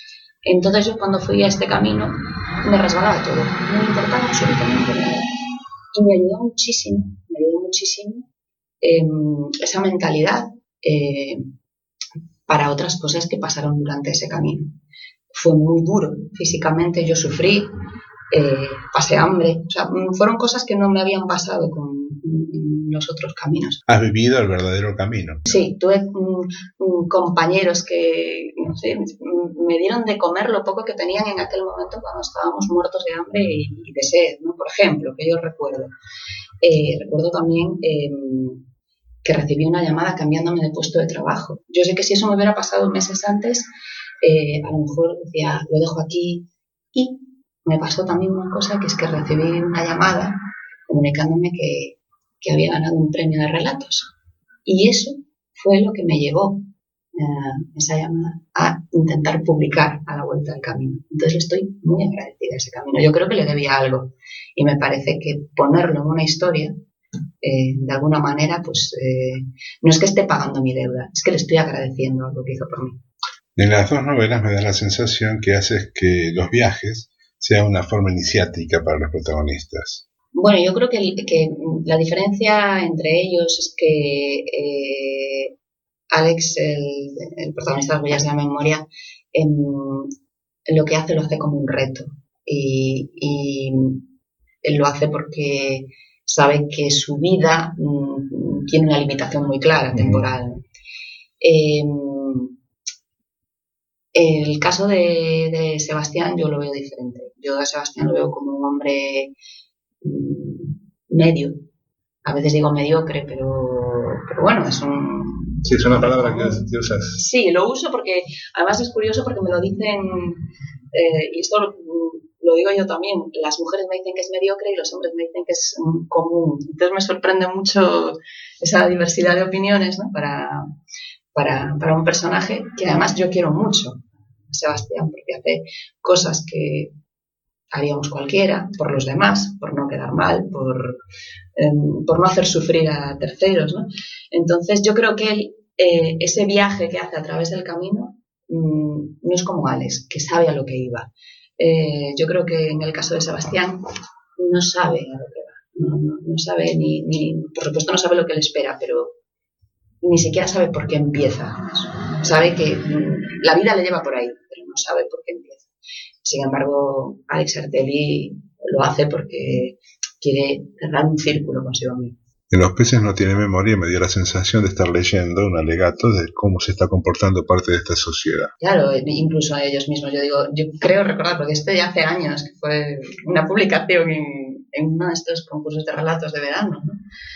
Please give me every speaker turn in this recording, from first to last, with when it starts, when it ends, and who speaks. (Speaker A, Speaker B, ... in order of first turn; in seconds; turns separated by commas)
Speaker A: 0.4-5.3, Speaker A: 5.9-8.2, Speaker A: 8.8-11.5, Speaker A: 12.5-14.8, Speaker A: 15.3-17.7, Speaker A: 18.3-23.8, Speaker B: 23.9-25.4, Speaker A: 25.4-35.9, Speaker A: 36.6-38.6, Speaker A: 39.2-43.7, Speaker A: 44.2-54.1, Speaker A: 54.6-66.8, Speaker A: 67.4-73.0, Speaker B: 73.5-80.0, Speaker A: 80.3-85.5, Speaker A: 86.1-90.1, Speaker A: 90.7-94.0, Speaker A: 94.6-100.6, Speaker B: 100.0-100.2, Speaker A: 101.4-102.5, Speaker A: 104.1-109.3, Speaker A: 110.0-111.6, Speaker A: 112.2-130.7, Speaker B: 115.6-117.2, Speaker A: 131.3-136.9, Speaker A: 137.7-141.0, Speaker A: 141.6-153.8, Speaker A: 154.4-159.2, Speaker A: 160.0-165.7, Speaker A: 166.2-172.1, Speaker B: 172.5-178.5, Speaker A: 178.6-187.0